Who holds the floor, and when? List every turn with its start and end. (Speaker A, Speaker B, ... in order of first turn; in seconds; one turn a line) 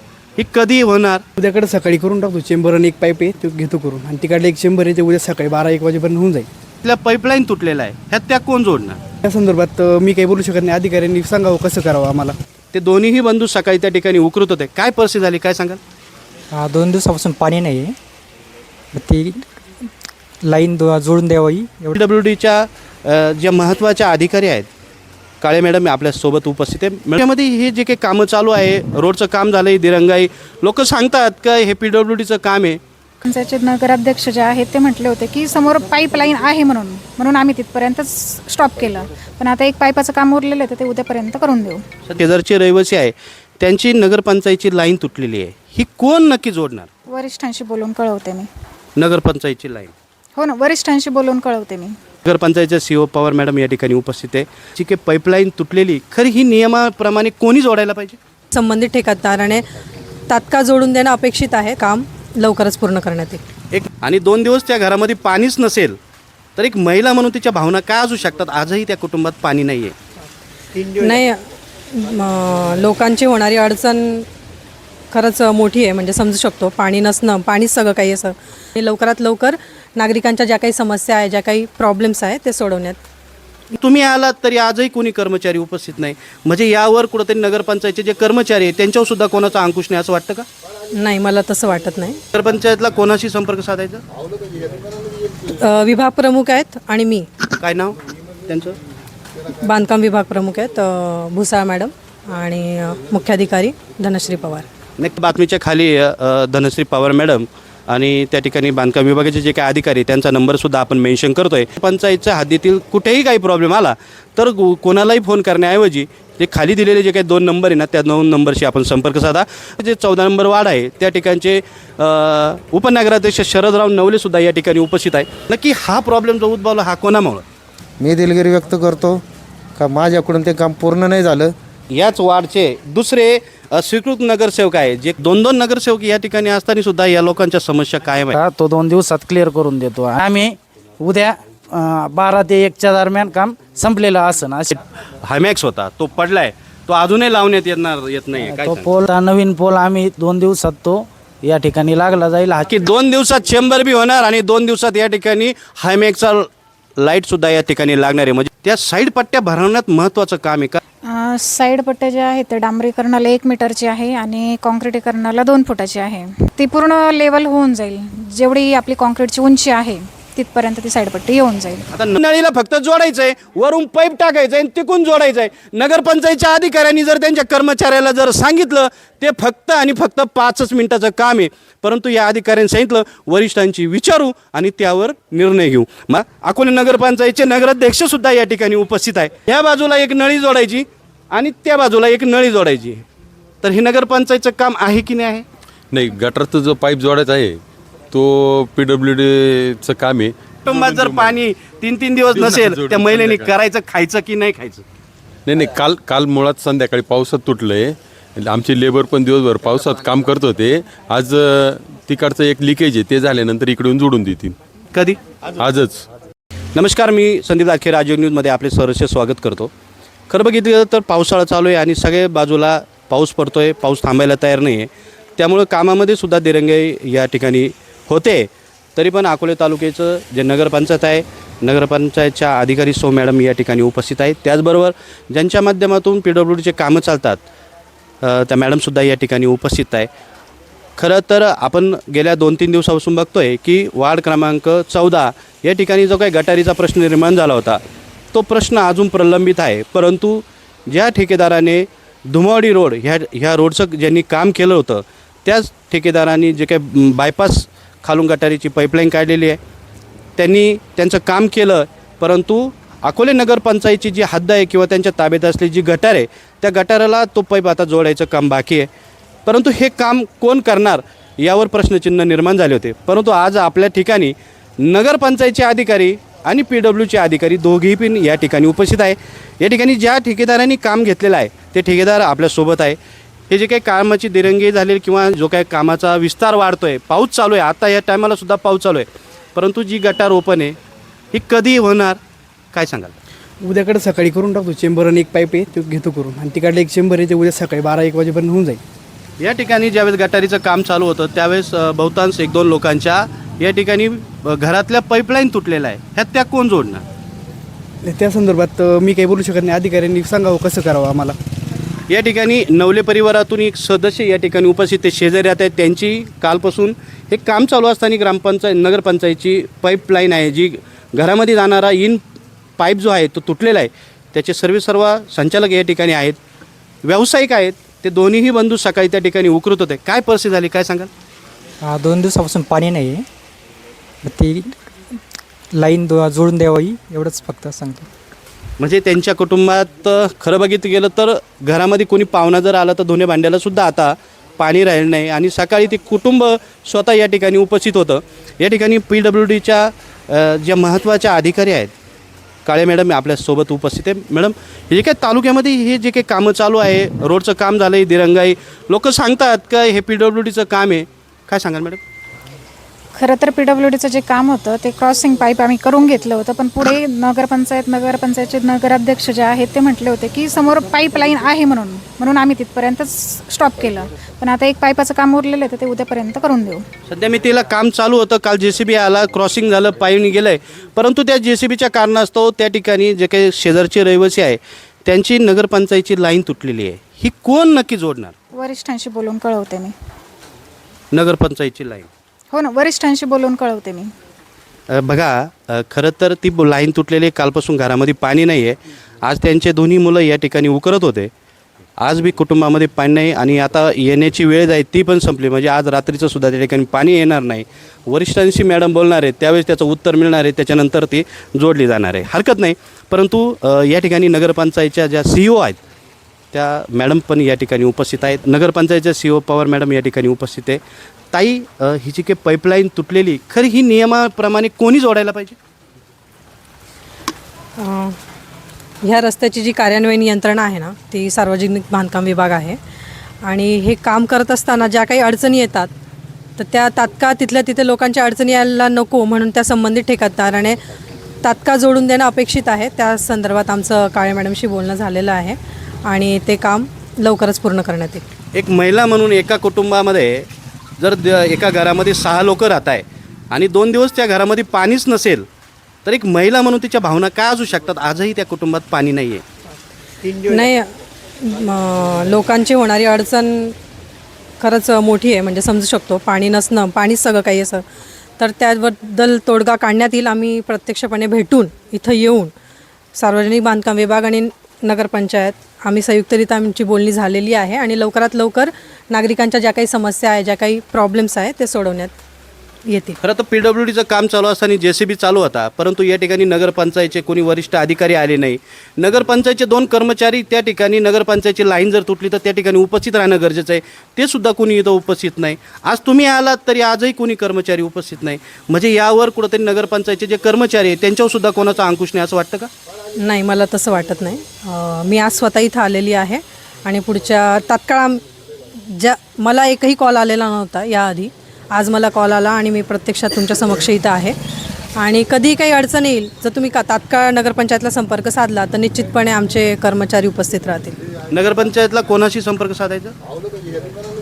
Speaker A: 0.4-1.2
Speaker B: 1.4-6.4
Speaker A: 6.8-9.0
Speaker B: 9.2-12.4
Speaker A: 12.7-15.8
Speaker C: 16.5-17.9
Speaker C: 18.9-19.4
Speaker C: 20.4-21.9
Speaker A: 21.9-24.7
Speaker A: 25.4-32.8
Speaker D: 33.2-41.8
Speaker A: 42.0-46.9
Speaker D: 47.1-48.5
Speaker A: 49.0-49.9
Speaker D: 50.4-52.0
Speaker A: 52.2-58.2
Speaker E: 58.5-59.6
Speaker E: 60.3-63.4
Speaker A: 63.7-66.0
Speaker A: 66.6-69.9
Speaker E: 70.9-71.4
Speaker E: 71.9-74.2
Speaker E: 75.1-83.0
Speaker A: 83.7-90.5
Speaker E: 91.0-92.2
Speaker A: 92.3-94.0
Speaker E: 95.5-97.3
Speaker A: 97.6-98.8
Speaker E: 99.6-104.7
Speaker A: 105.0-127.4
Speaker F: 128.0-129.2
Speaker F: 129.8-131.5
Speaker A: 131.9-138.4
Speaker G: 138.3-144.8
Speaker A: 145.2-148.9
Speaker G: 148.4-152.7
Speaker A: 152.7-156.5
Speaker A: 157.0-160.8
Speaker D: 161.1-171.8
Speaker A: 171.9-193.0
Speaker A: 193.6-195.4
Speaker H: 195.9-197.6
Speaker H: 198.1-201.4
Speaker A: 200.6-204.8
Speaker H: 202.3-203.5
Speaker H: 205.5-214.6
Speaker H: 215.6-216.0
Speaker A: 216.7-219.7
Speaker A: 220.3-237.4
Speaker A: 238.2-240.1
Speaker A: 241.0-247.8
Speaker A: 248.3-259.6
Speaker A: 260.4-268.9
Speaker A: 269.4-283.0
Speaker A: 283.5-290.7
Speaker A: 291.3-292.2
Speaker A: 292.7-293.1
Speaker B: 293.6-298.8
Speaker A: 299.4-307.0
Speaker B: 308.0-311.3
Speaker A: 312.1-322.2
Speaker A: 322.8-326.4
Speaker A: 327.0-331.1
Speaker C: 331.8-333.2
Speaker C: 334.2-334.7
Speaker C: 335.7-338.1
Speaker A: 338.8-351.9
Speaker A: 352.6-362.0
Speaker D: 363.1-376.8
Speaker A: 377.1-388.3
Speaker D: 388.5-389.9
Speaker A: 391.1-392.1
Speaker D: 392.5-394.1
Speaker A: 394.9-401.3
Speaker A: 402.0-415.8
Speaker A: 416.5-420.8
Speaker A: 421.3-425.6
Speaker E: 427.8-428.2
Speaker E: 429.0-432.8
Speaker E: 433.4-435.9
Speaker E: 436.6-440.8
Speaker E: 441.4-448.2
Speaker A: 448.5-450.5
Speaker A: 451.0-455.4
Speaker A: 456.0-459.4
Speaker E: 460.4-460.9
Speaker E: 461.4-463.7
Speaker E: 464.6-467.8
Speaker E: 468.4-472.5
Speaker E: 473.1-482.1
Speaker E: 482.9-483.2
Speaker A: 483.2-502.7
Speaker E: 503.2-508.2
Speaker E: 508.9-514.4
Speaker E: 515.0-521.0
Speaker A: 521.3-523.1